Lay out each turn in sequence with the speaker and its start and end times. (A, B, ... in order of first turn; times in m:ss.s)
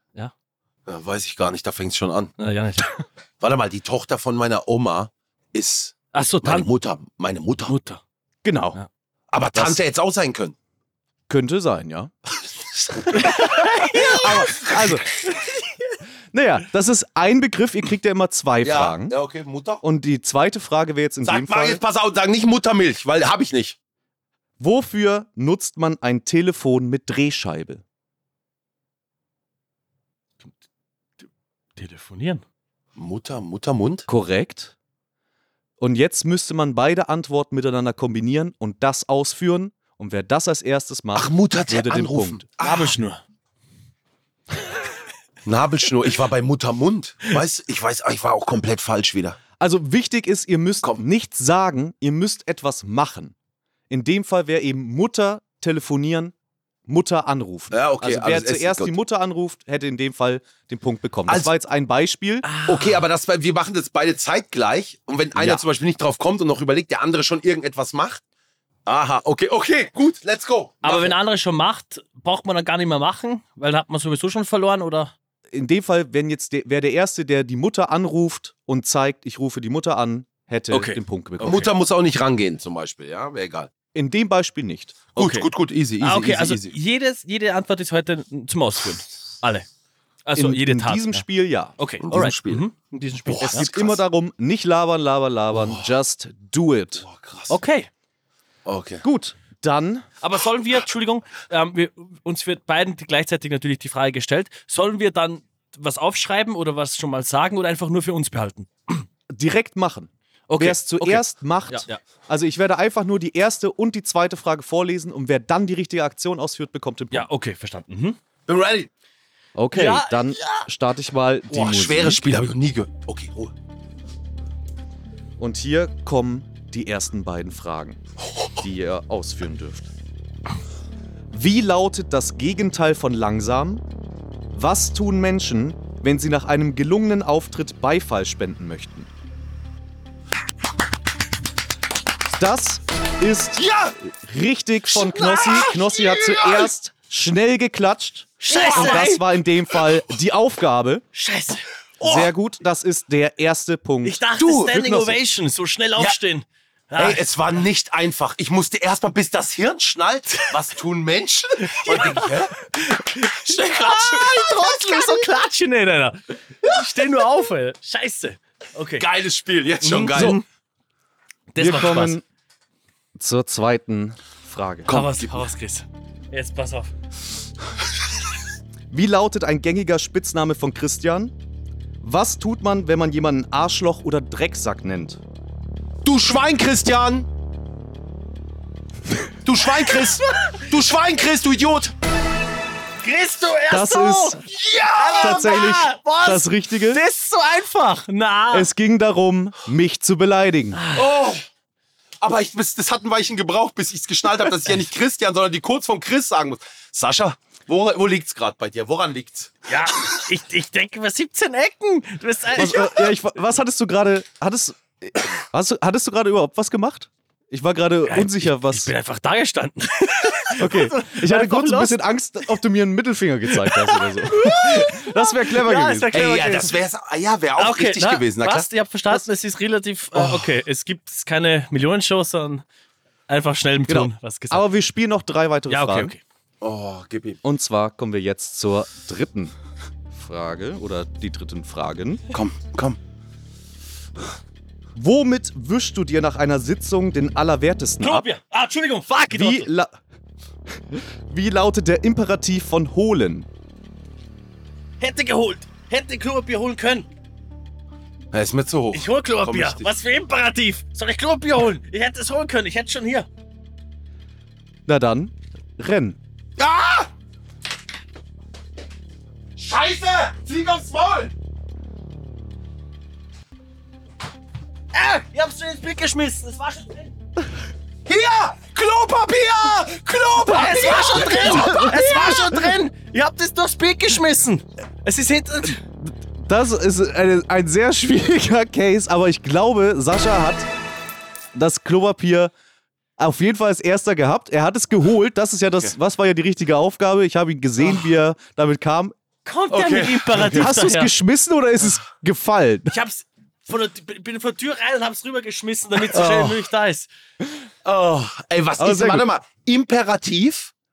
0:00.9-0:02.3 A
0:02.4-0:03.0 B
0:03.4-0:07.7 A
0:06.1-0:06.7 B
0:07.7-0:08.0 B
0:08.4-0:08.8 C
0:09.3-0:10.5 A
0:09.5-0:09.8 C
0:11.3-0:12.1 C
0:13.1-0:14.7 B
0:13.4-0:15.1 C
0:16.3-0:19.1 C
0:18.6-0:19.8 A
0:19.8-0:21.8 C
0:21.2-0:23.8 A
0:24.6-0:27.8 C
0:31.8-0:32.4 B
0:33.0-0:34.1 A
0:34.1-0:34.8 C
0:35.8-0:42.4 C
0:41.1-0:42.9 A
0:42.6-0:43.2 B
0:45.5-0:49.4 A
0:49.6-0:53.4 C
0:53.9-0:56.3 C
0:56.9-1:02.5 C
0:57.7-0:58.9 A
1:02.4-1:03.0 B
1:02.6-1:08.2 A
1:05.4-1:05.6 C
1:08.9-1:11.1 A
1:10.8-1:15.1 B
1:15.5-1:21.7 C
1:20.7-1:21.7 B
1:21.4-1:23.7 A
1:24.0-1:25.0 C
1:25.1-1:26.8 A
1:25.2-1:25.5 B
1:26.0-1:29.7 B
1:30.2-1:31.2 B
1:30.4-1:31.8 C
1:31.8-1:33.7 B
1:32.0-1:32.6 A
1:33.3-1:34.0 A
1:33.4-1:37.0 C
1:35.5-1:35.9 A
1:37.0-1:37.6 A
1:37.5-1:37.9 B
1:38.6-1:39.0 A
1:39.0-1:40.1 C
1:40.2-1:49.0 B
1:49.3-1:57.3 C
1:50.5-1:52.0 B
1:57.1-1:58.2 B
1:58.5-1:58.9 A
1:59.5-2:02.5 C
1:59.7-2:00.6 B
2:01.5-2:03.5 A
2:05.4-2:08.0 C
2:08.6-2:09.9 C
2:11.3-2:13.8 C
2:14.5-2:19.1 C
2:22.3-2:31.0 C
2:23.6-2:24.0 A
2:25.0-2:26.7 A
2:28.4-2:29.2 B
2:28.5-2:29.2 A
2:31.1-2:32.3 B
2:32.0-2:35.1 C
2:34.0-2:37.2 B
2:37.0-2:42.6 A
2:41.6-2:49.1 B
2:43.4-2:44.6 A
2:49.0-2:50.4 A
2:49.8-2:50.4 B
2:50.1-2:50.4 C
2:51.5-2:52.2 B
2:51.6-2:52.2 C
2:53.2-2:55.0 C
2:54.9-2:56.9 B
2:54.9-2:55.4 A
2:58.9-3:01.3 C
3:02.0-3:05.2 C
3:06.0-3:07.3 A
3:09.4-3:11.9 A
3:13.0-3:14.4 B
3:13.7-3:14.5 C
3:14.5-3:15.6 A
3:14.9-3:18.7 B
3:15.2-3:17.0 C
3:18.5-3:20.8 C
3:20.8-3:21.1 B
3:21.0-3:21.4 A
3:22.2-3:29.6 A
3:29.7-3:33.1 B
3:32.6-3:38.9 C
3:38.1-3:42.0 B
3:40.6-3:46.7 C
3:43.7-3:46.7 B
3:46.1-3:48.7 A
3:47.6-3:52.6 B
3:53.3-3:54.7 B
3:53.9-3:56.1 C
3:55.7-3:56.2 B
3:56.6-3:57.4 A
3:57.4-3:59.5 C
4:00.1-4:02.3 C
4:02.3-4:03.0 A
4:05.0-4:08.3 C
4:08.0-4:09.7 B
4:09.3-4:10.0 C
4:10.9-4:13.5 C
4:15.0-4:17.1 B
4:18.3-4:19.9 A
4:18.9-4:23.3 B
4:24.9-4:26.2 C
4:26.6-4:27.1 A
4:29.6-4:31.3 A
4:34.9-4:37.1 B
4:38.1-4:42.5 A
4:40.5-4:45.8 B
4:41.4-4:42.0 C
4:45.6-4:50.7 C
4:51.5-4:52.5 C
4:53.2-4:59.2 C
4:59.4-5:01.1 B
4:59.7-5:00.7 A
5:00.5-5:03.0 C
5:02.9-5:07.1 B
5:06.1-5:06.6 A
5:07.8-5:10.7 A
5:08.8-5:09.3 C